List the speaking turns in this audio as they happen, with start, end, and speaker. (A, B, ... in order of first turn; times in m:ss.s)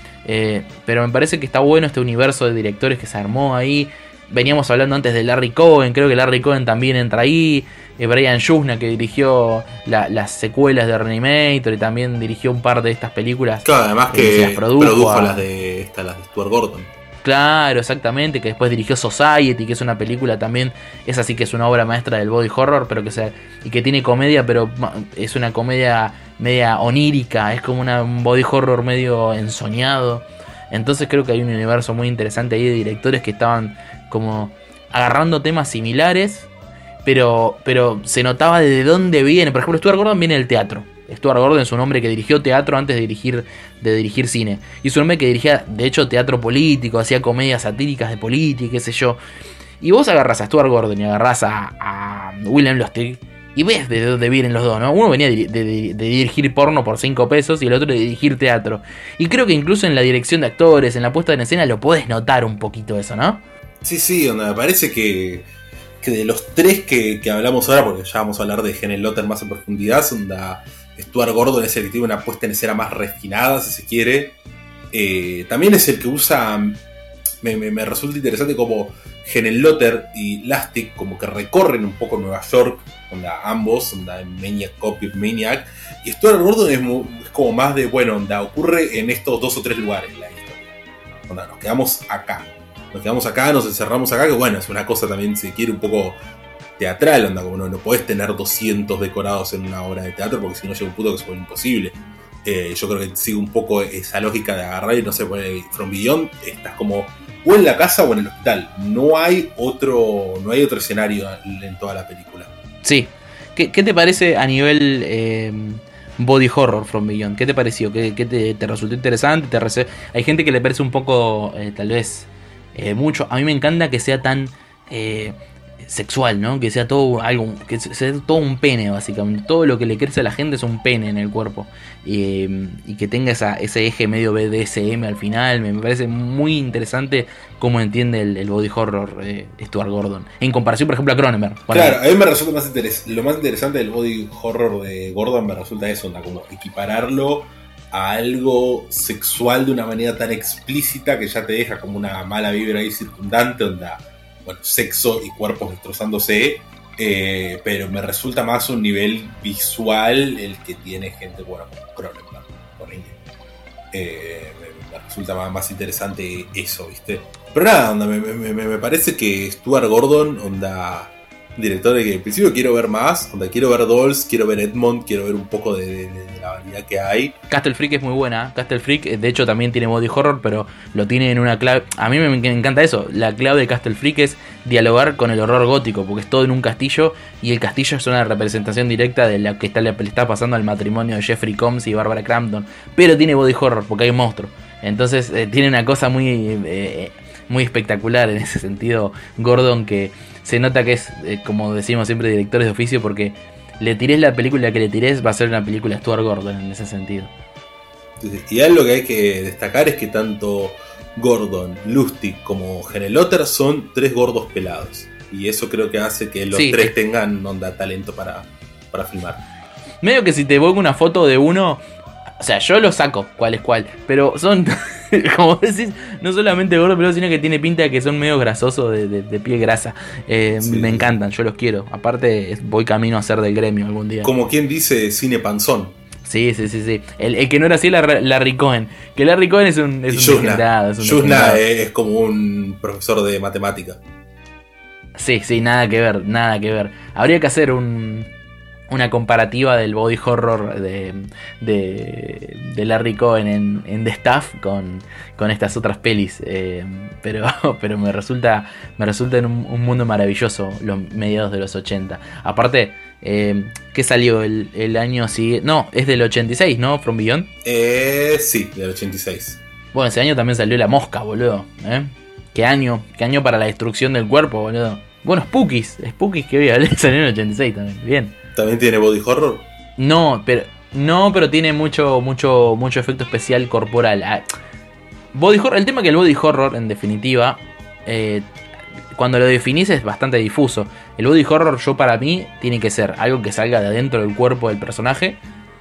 0:00.2-0:15.4 A
0:13.6-0:16.9 B
0:17.2-0:36.5 A
0:37.0-0:49.2 A
0:49.8-1:03.4 A
1:03.8-1:05.5 B
1:06.0-1:14.4 B
1:14.9-1:16.8 B
1:17.4-1:30.7 B
1:31.3-1:36.2 B
1:36.8-1:52.5 B
1:52.8-2:22.0 A
2:21.7-2:43.2 B
2:43.9-2:57.4 B
2:57.5-3:27.3 A
3:28.2-3:39.4 B
3:36.5-3:36.9 A
3:40.0-3:41.8 A
3:42.4-3:54.3 A
3:50.6-3:51.1 B
3:54.2-3:56.0 B
3:56.2-4:01.6 A
4:00.1-4:04.0 B
4:05.2-4:08.3 A
4:08.9-4:27.5 A
4:27.6-4:29.6 B
4:29.9-4:38.3 A
4:38.5-4:39.7 B
4:40.0-4:44.4 A
4:45.3-4:48.5 A
4:49.1-4:55.4 A